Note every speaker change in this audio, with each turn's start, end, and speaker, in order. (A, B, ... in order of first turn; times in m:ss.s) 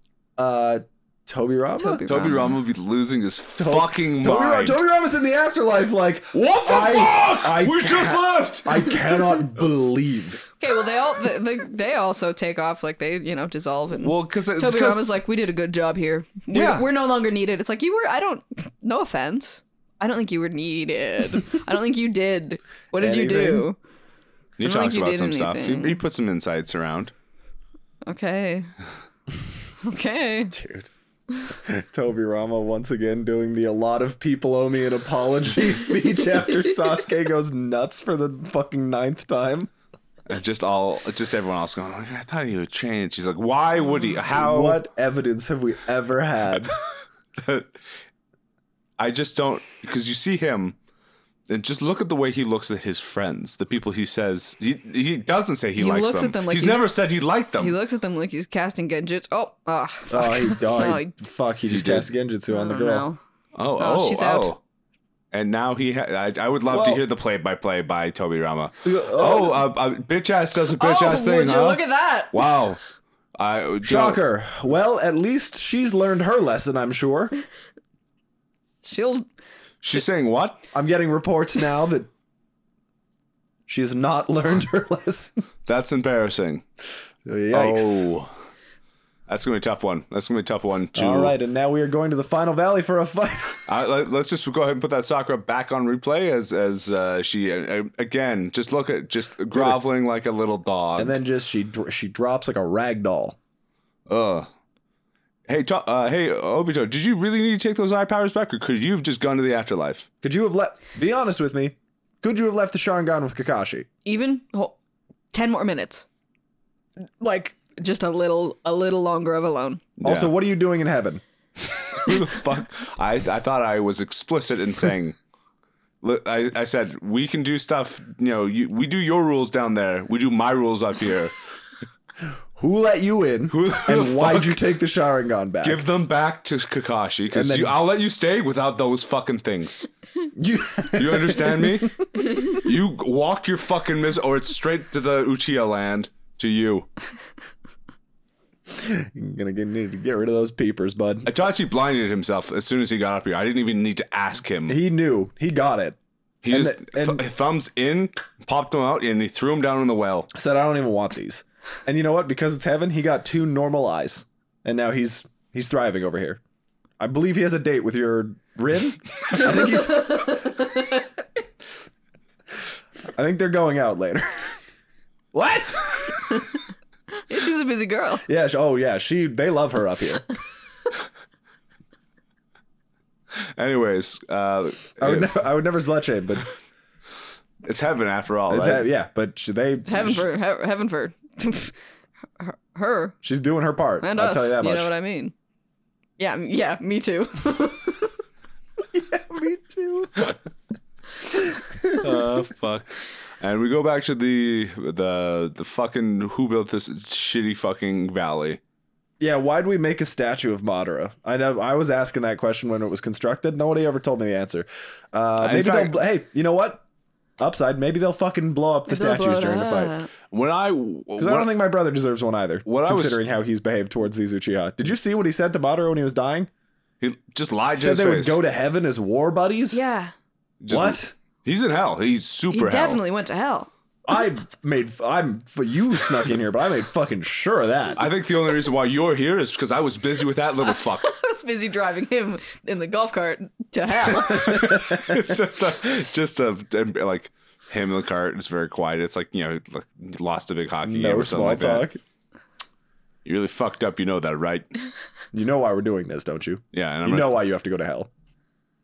0:00.4-0:02.0 A
0:01.8-0:02.6 B
0:02.1-0:04.8 C
0:03.6-0:10.5 A
0:06.3-0:09.0 C
0:10.6-0:23.8 B
0:13.9-0:15.1 C
0:16.5-0:16.9 C
0:23.0-0:23.7 A
0:24.6-0:27.1 C
0:24.6-0:26.0 B
0:28.0-0:28.7 B
0:29.8-0:30.6 B
0:30.5-0:30.9 A
0:31.5-0:39.7 A
0:40.3-0:44.8 C
0:44.3-0:46.7 A
0:47.4-0:47.7 C
0:49.0-0:50.8 C
0:51.5-0:57.8 C
0:55.8-0:56.9 B
0:57.6-1:01.2 B
1:00.1-1:03.1 A
1:01.7-1:02.1 C
1:02.5-1:03.2 B
1:03.6-1:04.6 C
1:03.8-1:04.6 B
1:05.3-1:12.8 C
1:06.7-1:07.0 A
1:08.8-1:09.6 A
1:10.8-1:12.6 B
1:13.4-1:14.2 C
1:13.8-1:17.3 A
1:18.8-1:19.3 B
1:19.8-1:20.6 C
1:20.7-1:22.1 A
1:23.7-1:25.4 A
1:25.7-1:26.6 C
1:27.2-1:28.1 A
1:27.5-1:28.3 C
1:29.3-1:31.3 C
1:31.0-1:33.7 A
1:33.7-1:41.2 C
1:39.5-1:39.8 A
1:41.0-1:43.4 A
1:44.1-1:44.5 C
1:45.5-1:50.1 C
1:50.2-1:53.9 A
1:54.0-1:54.8 B
1:55.3-1:56.0 B
1:57.2-1:59.8 B
2:00.0-2:00.3 C
2:00.0-2:01.2 A
2:01.7-2:05.2 C
2:06.0-2:11.4 C
2:12.6-2:15.8 A
2:13.5-2:14.6 C
2:15.6-2:19.9 C
2:17.3-2:17.8 A
2:20.4-2:22.2 A
2:21.0-2:26.9 C
2:28.7-2:31.3 A
2:31.2-2:34.8 C
2:34.7-2:36.0 A
2:36.4-2:40.3 C
2:36.5-2:37.2 A
2:40.3-2:46.4 A
2:47.0-2:50.6 A
2:49.4-2:51.0 B
2:53.1-2:54.5 A
2:55.3-2:56.3 A
2:56.3-2:56.6 B
2:57.3-2:58.2 B
2:58.2-3:00.2 A
3:03.4-3:05.4 C
3:05.0-3:06.5 A
3:07.6-3:08.9 C
3:08.5-3:10.3 A
3:09.9-3:11.7 B
3:12.4-3:13.2 B
3:13.2-3:14.9 A
3:14.0-3:15.3 B
3:16.2-3:18.2 B
3:18.9-3:20.3 A
3:21.3-3:22.1 A
3:22.0-3:28.6 C
3:29.2-3:36.8 A
3:35.4-3:36.0 C
3:37.4-3:40.0 A
3:38.9-3:40.1 B
3:40.3-3:41.5 C
3:41.2-3:46.5 A
3:42.6-3:43.2 C
3:47.0-3:48.4 C
3:47.8-3:49.8 A
3:49.7-3:50.1 B
3:50.6-3:53.0 C
3:50.7-3:51.1 A
3:52.5-3:53.7 B
3:54.1-3:58.0 A
3:58.0-4:01.1 C
4:00.7-4:04.8 B
4:04.1-4:11.9 C
4:04.3-4:05.4 A
4:10.8-4:12.0 A
4:13.2-4:14.7 C
4:15.3-4:18.1 A
4:16.7-4:17.4 C